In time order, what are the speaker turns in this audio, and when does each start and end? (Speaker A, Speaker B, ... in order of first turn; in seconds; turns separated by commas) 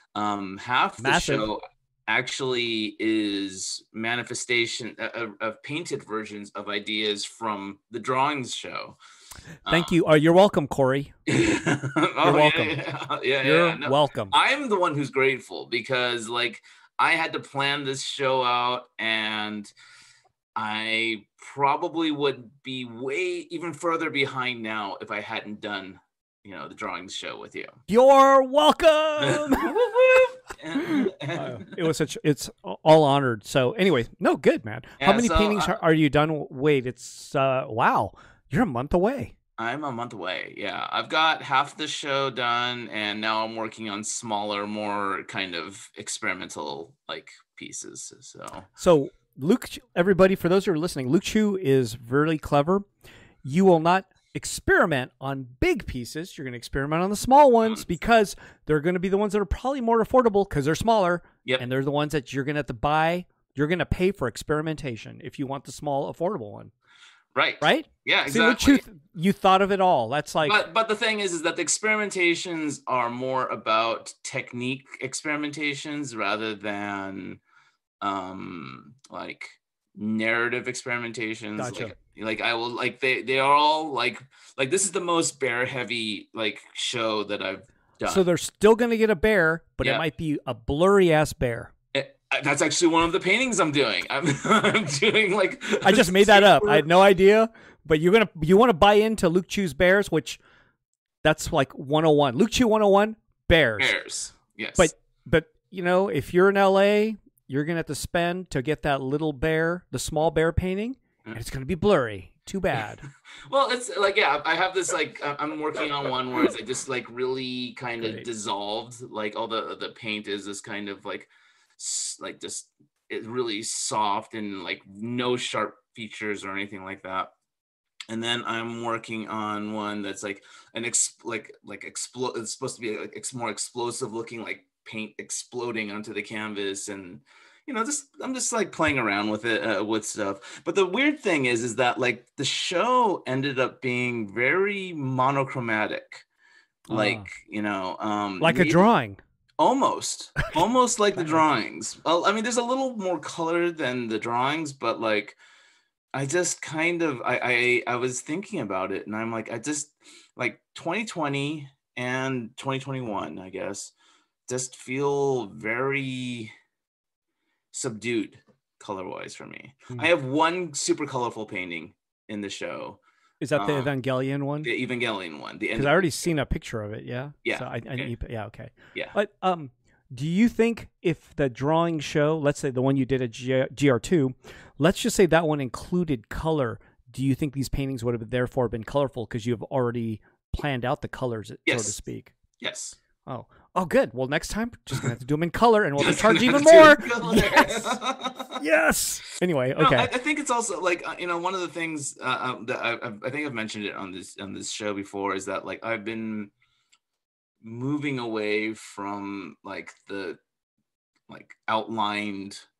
Speaker A: 0.1-9.0, Speaker B: 1.0-1.5, Speaker A: 9.7-9.9, Speaker B: 9.7-11.2, Speaker A: 11.3-19.7, Speaker B: 12.2-12.8, Speaker B: 13.4-14.3, Speaker A: 20.6-27.8, Speaker B: 27.9-39.3, Speaker A: 29.2-29.9, Speaker A: 30.6-31.7, Speaker A: 35.0-35.8, Speaker A: 39.6-48.7, Speaker B: 48.8-52.9, Speaker B: 53.5-66.7, Speaker A: 67.3-68.8, Speaker B: 67.6-70.6, Speaker A: 70.4-77.4, Speaker A: 78.0-88.2, Speaker B: 81.6-82.0, Speaker B: 88.0-91.7, Speaker A: 91.9-96.9, Speaker B: 95.8-100.4, Speaker B: 101.2-104.0, Speaker A: 103.8-104.9, Speaker B: 104.8-113.0, Speaker A: 113.5-127.3, Speaker B: 118.0-118.3, Speaker A: 128.1-146.2, Speaker B: 146.9-147.3, Speaker A: 146.9-148.8, Speaker B: 148.4-149.2, Speaker A: 149.6-155.4, Speaker B: 151.2-151.4, Speaker A: 156.1-163.9, Speaker A: 164.5-166.5, Speaker A: 167.7-173.0, Speaker B: 173.4-174.7, Speaker A: 173.6-173.9, Speaker A: 174.6-176.3, Speaker B: 175.8-192.3, Speaker A: 177.4-178.1, Speaker A: 191.7-192.0, Speaker A: 192.6-193.0, Speaker B: 193.3-198.0, Speaker A: 196.0-198.6, Speaker B: 198.6-200.1, Speaker A: 199.8-206.5, Speaker A: 207.6-210.4, Speaker A: 211.3-212.6